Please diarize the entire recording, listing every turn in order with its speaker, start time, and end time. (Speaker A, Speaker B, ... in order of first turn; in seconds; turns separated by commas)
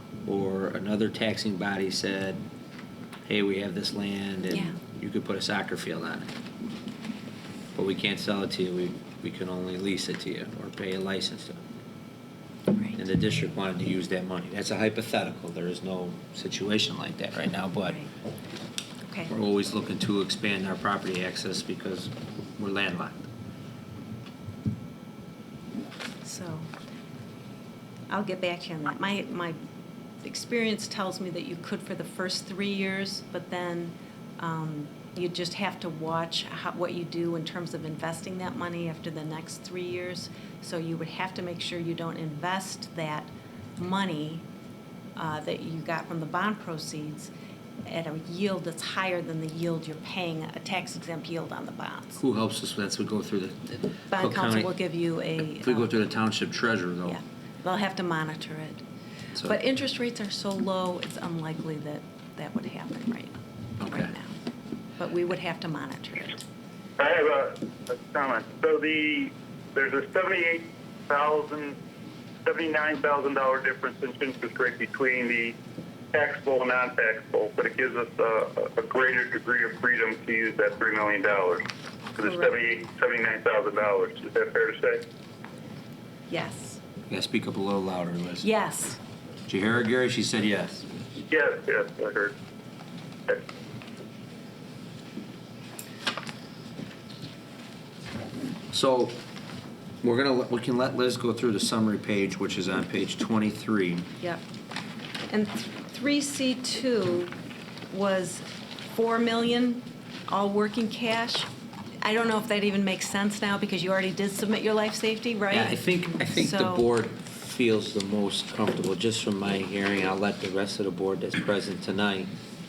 Speaker A: 0.2-2.4, Speaker A: 3.2-6.3, Speaker A: 7.8-11.6, Speaker B: 12.7-13.0, Speaker A: 13.0-18.0, Speaker A: 19.3-23.2, Speaker B: 26.2-26.7, Speaker B: 28.1-29.6, Speaker B: 30.2-44.4, Speaker B: 45.2-47.3, Speaker B: 47.9-52.2, Speaker A: 52.2-54.7, Speaker B: 54.1-55.9, Speaker A: 55.5-57.2, Speaker B: 57.0-58.8, Speaker B: 59.4-64.3, Speaker A: 63.8-64.1, Speaker B: 65.0-66.4, Speaker C: 67.0-71.8, Speaker C: 72.5-75.6, Speaker C: 76.1-81.6, Speaker C: 82.2-85.0, Speaker B: 82.2-82.5, Speaker B: 86.3-86.8, Speaker A: 87.1-88.5, Speaker B: 88.4-89.0, Speaker A: 89.5-90.9, Speaker C: 91.3-92.3, Speaker A: 98.7-99.2, Speaker A: 100.0-104.1, Speaker B: 105.3-107.3, Speaker B: 107.9-111.5, Speaker B: 112.0-116.9, Speaker A: 115.5-122.3